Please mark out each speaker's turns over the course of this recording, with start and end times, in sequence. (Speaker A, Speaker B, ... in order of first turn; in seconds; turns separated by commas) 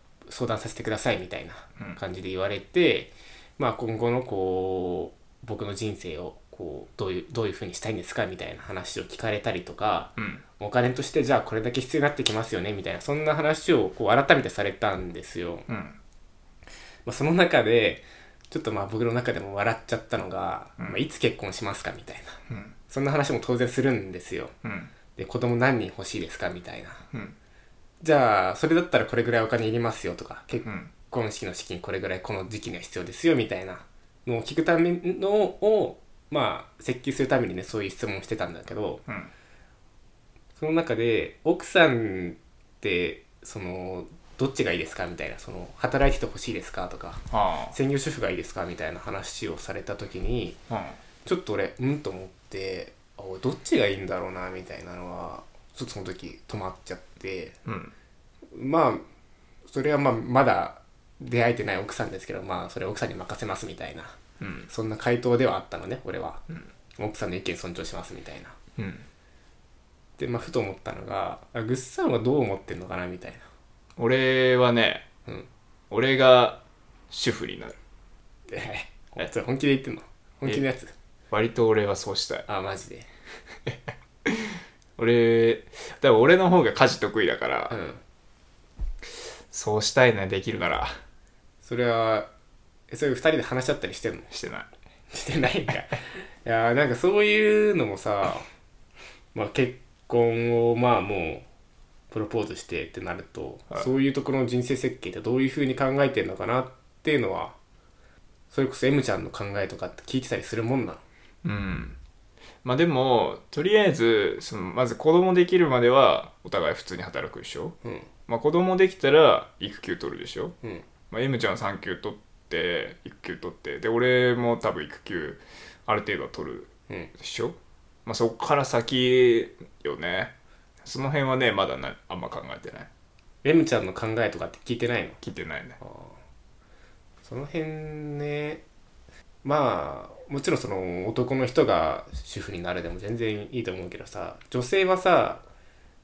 Speaker A: 0.3-15.7, Speaker B: 10.2-10.4, Speaker B: 15.7-16.0, Speaker A: 17.0-24.5, Speaker B: 22.5-22.7, Speaker B: 24.6-24.9, Speaker A: 25.1-27.0, Speaker A: 28.0-39.0, Speaker B: 30.6-30.9, Speaker B: 39.1-39.3, Speaker A: 40.6-50.6, Speaker B: 47.3-47.7, Speaker B: 50.7-51.0, Speaker A: 51.2-57.5, Speaker B: 57.6-57.9, Speaker A: 58.5-59.0, Speaker A: 59.7-66.4, Speaker B: 64.4-64.7, Speaker A: 67.0-68.5, Speaker B: 68.8-69.1, Speaker A: 70.2-73.4, Speaker B: 74.0-75.0, Speaker B: 75.9-76.6, Speaker B: 77.1-77.8, Speaker A: 78.5-80.9, Speaker B: 81.3-82.5, Speaker A: 82.5-83.1, Speaker B: 84.2-87.8, Speaker A: 87.7-88.0, Speaker B: 89.5-91.0, Speaker A: 91.6-92.3, Speaker A: 92.9-94.3, Speaker B: 94.3-94.7, Speaker A: 95.1-98.5, Speaker A: 99.3-101.5, Speaker A: 102.1-107.5, Speaker A: 108.5-111.0, Speaker B: 111.4-112.0, Speaker B: 112.6-117.7, Speaker A: 117.8-118.1, Speaker B: 118.3-120.5, Speaker B: 121.1-132.9, Speaker A: 133.4-135.2, Speaker B: 135.2-135.8, Speaker A: 135.8-136.2, Speaker A: 137.2-138.6, Speaker A: 139.4-145.4